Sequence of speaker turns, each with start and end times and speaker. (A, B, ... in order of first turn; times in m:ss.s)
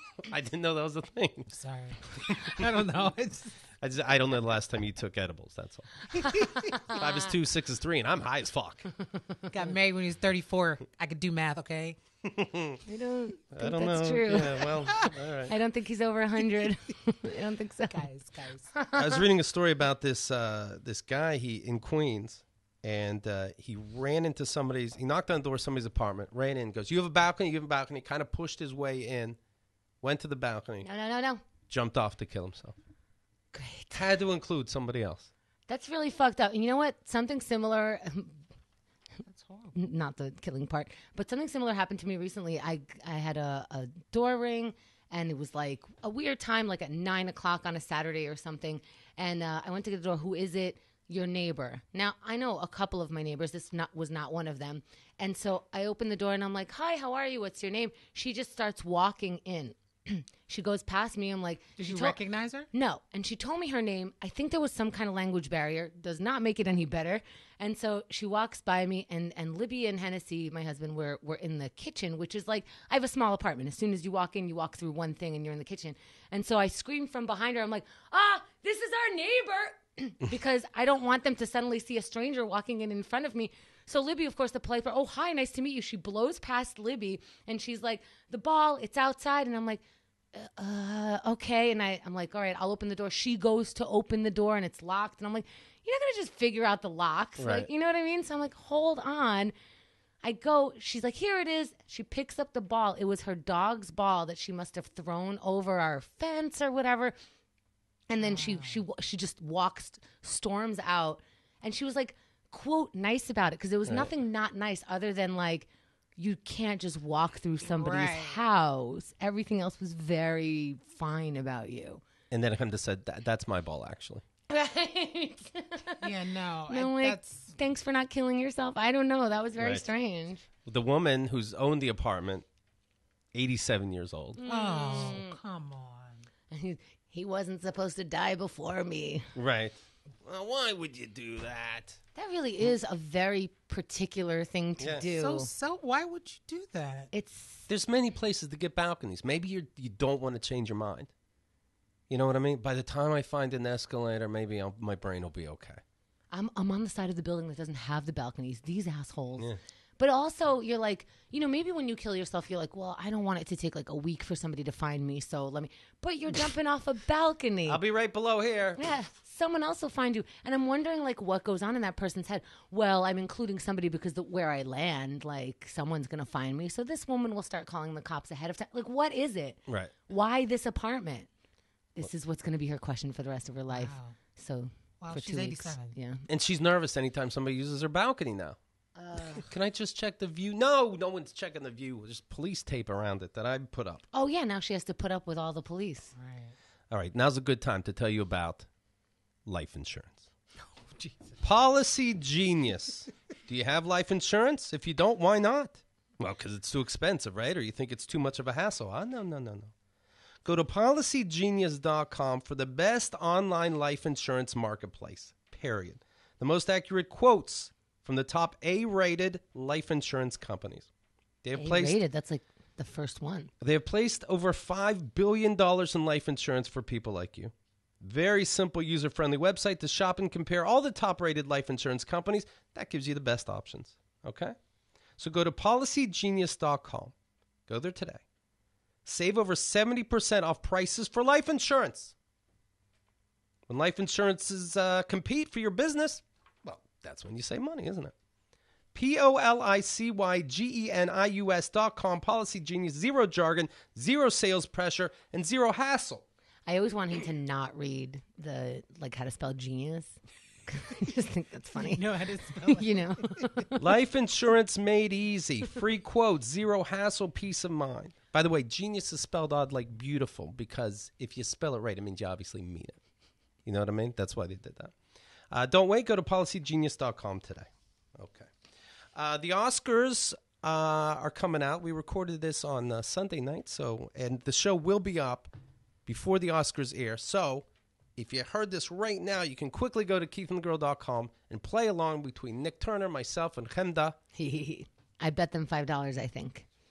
0:00.2-0:01.5 A
0:01.5-0:03.6 B
0:02.1-0:02.7 A
0:03.8-0:08.9 A
0:09.5-0:12.0 B
0:12.2-0:12.8 A
0:12.8-0:14.7 C
0:13.5-0:15.5 A
0:15.5-0:18.1 C
0:17.9-0:18.7 B
0:18.7-0:19.2 C
0:18.9-0:29.4 A
0:30.0-0:30.9 A
0:30.8-0:31.4 C
0:31.7-0:32.7 A
0:33.5-0:34.0 C
0:33.9-0:35.3 A
0:35.7-0:38.4 C
0:39.2-0:39.7 B
0:39.7-1:02.2 C
1:01.8-1:02.7 B
1:02.7-1:29.8 C
1:30.3-1:39.5 C
1:37.4-1:37.7 A
1:40.2-1:47.1 C
1:48.1-2:02.0 C
1:48.2-1:48.8 B
1:57.6-1:58.4 B
2:02.3-2:04.2 A
2:04.5-2:06.1 C
2:06.0-2:07.5 B
2:06.7-2:10.4 C
2:09.6-2:09.8 A
2:10.6-2:12.4 A
2:13.3-2:14.4 A
2:14.4-2:15.4 C
2:14.4-2:16.3 B
2:16.5-2:19.3 C
2:19.3-2:22.0 A
2:22.2-2:25.5 C
2:24.8-2:25.0 A
2:25.1-2:27.1 B
2:27.1-2:27.7 C
2:27.7-2:31.1 A
2:32.1-2:35.8 A
2:36.3-2:47.8 C
2:47.7-2:48.8 A
2:48.8-3:01.3 C
3:02.0-3:06.2 C
3:03.7-3:04.2 B
3:05.0-3:06.0 B
3:06.3-3:08.6 A
3:09.0-3:09.4 C
3:09.3-3:14.0 A
3:14.1-3:16.1 C
3:16.2-3:16.6 B
3:16.9-3:18.7 A
3:19.4-3:20.2 A
3:20.6-3:21.4 B
3:21.4-3:29.7 A
3:30.4-3:40.9 A
3:41.4-3:42.0 A
3:41.6-3:43.5 C
3:43.6-3:54.6 A
3:55.2-3:57.1 A
3:57.7-3:58.2 A
3:59.0-4:02.1 A
4:03.7-4:08.1 A
4:08.9-4:16.2 A
4:16.7-4:22.0 C
4:21.7-4:23.7 B
4:22.6-4:23.8 C
4:23.8-4:33.0 A
4:33.6-4:34.9 A
4:35.5-4:38.5 A
4:39.1-4:45.5 A
4:46.0-4:54.2 A
4:54.4-4:56.6 C